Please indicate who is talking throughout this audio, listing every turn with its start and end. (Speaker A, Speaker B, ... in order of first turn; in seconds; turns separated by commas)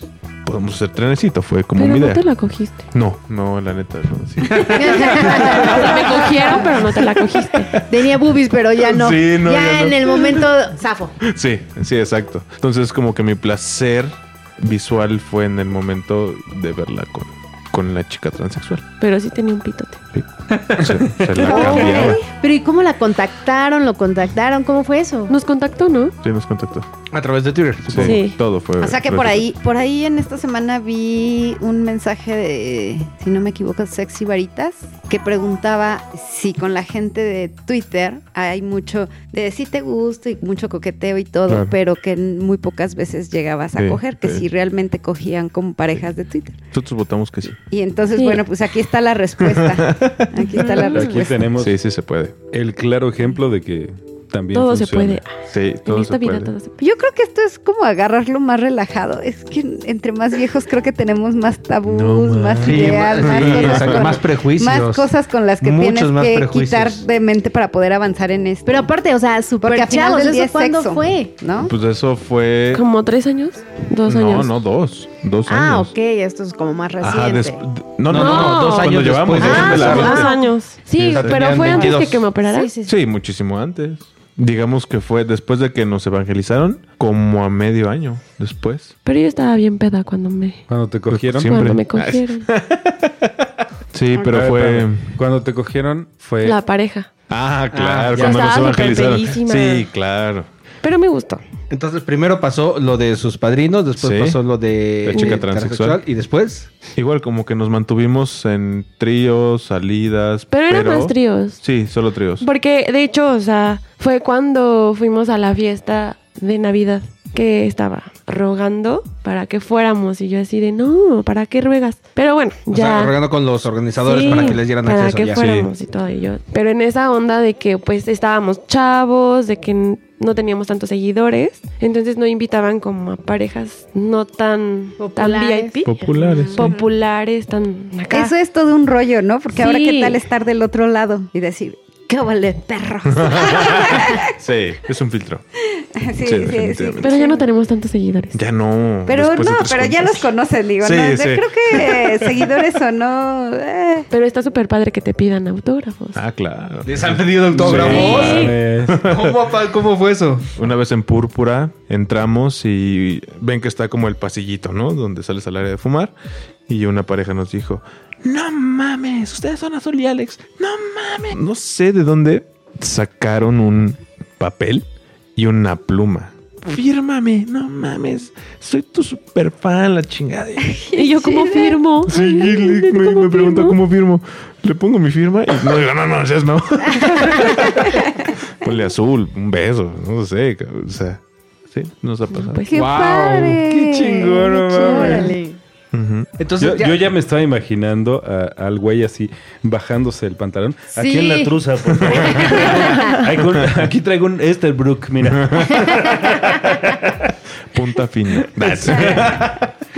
Speaker A: 0.5-2.2, Speaker B: 1.8-2.8, Speaker A: 2.9-8.2, Speaker C: 4.6-6.7, Speaker B: 5.0-7.7, Speaker C: 7.8-11.2, Speaker A: 8.8-10.5, Speaker A: 11.2-18.9, Speaker B: 19.0-20.0, Speaker A: 20.1-22.2, Speaker D: 20.6-21.5, Speaker C: 21.4-25.3, Speaker B: 21.5-21.9, Speaker E: 21.5-22.2, Speaker B: 25.3-26.1, Speaker A: 26.2-26.9, Speaker F: 27.1-28.2, Speaker A: 27.9-29.5, Speaker B: 28.0-28.4, Speaker E: 28.8-46.6, Speaker A: 41.5-41.7, Speaker A: 43.8-44.5, Speaker A: 46.7-47.6, Speaker E: 47.7-51.4, Speaker B: 48.1-48.4, Speaker A: 49.4-50.6, Speaker B: 50.4-51.1, Speaker D: 50.9-51.8, Speaker A: 51.6-52.4, Speaker D: 52.5-55.2, Speaker B: 54.5-56.8, Speaker A: 55.5-56.5, Speaker E: 56.8-68.9, Speaker D: 61.9-63.0, Speaker F: 62.6-65.1, Speaker A: 63.1-64.1, Speaker F: 65.6-67.0, Speaker C: 68.7-71.3, Speaker E: 69.6-71.7, Speaker A: 71.6-72.8, Speaker B: 72.7-74.6, Speaker A: 74.1-75.9, Speaker C: 75.5-77.6, Speaker A: 77.0-80.3, Speaker F: 78.1-80.2, Speaker B: 78.1-82.7, Speaker C: 79.5-80.5, Speaker F: 81.0-82.3, Speaker A: 81.1-81.7, Speaker C: 81.7-82.9, Speaker A: 82.8-88.9, Speaker B: 89.0-90.6, Speaker D: 90.7-91.7, Speaker A: 91.1-95.2, Speaker B: 91.4-92.5, Speaker D: 94.2-96.6, Speaker B: 96.4-97.1, Speaker A: 97.3-100.5, Speaker F: 97.7-98.5, Speaker B: 98.2-99.9, Speaker B: 100.8-101.4, Speaker F: 101.7-106.7, Speaker A: 104.0-104.4, Speaker A: 105.0-106.0, Speaker B: 105.1-105.4, Speaker A: 107.0-112.5, Speaker B: 110.5-111.6, Speaker B: 112.4-123.1, Speaker F: 122.7-125.4, Speaker B: 124.0-138.3, Speaker A: 125.4-125.7, Speaker C: 135.0-136.7, Speaker A: 135.9-136.8, Speaker E: 136.3-136.7, Speaker E: 138.1-144.3, Speaker B: 139.6-140.2, Speaker C: 142.2-143.7, Speaker A: 143.1-145.4, Speaker E: 145.7-147.5, Speaker A: 146.2-147.3, Speaker B: 147.0-148.4, Speaker A: 148.3-152.4, Speaker E: 149.1-154.1, Speaker B: 154.1-156.2, Speaker A: 156.2-159.4, Speaker F: 156.8-160.5, Speaker D: 157.5-159.0, Speaker B: 157.8-158.6, Speaker A: 160.6-166.1, Speaker A: 166.7-180.9, Speaker E: 180.7-181.8, Speaker B: 180.9-183.8, Speaker A: 182.1-191.2, Speaker A: 191.7-192.6, Speaker B: 192.3-192.8, Speaker E: 192.7-195.4, Speaker D: 192.7-195.4, Speaker C: 195.1-195.4, Speaker A: 195.9-196.3, Speaker F: 196.4-197.1, Speaker D: 196.6-207.3, Speaker E: 200.9-201.6, Speaker E: 202.3-203.2, Speaker A: 205.4-205.8, Speaker A: 207.7-209.6, Speaker D: 208.6-209.5, Speaker E: 208.8-209.3, Speaker F: 209.1-209.5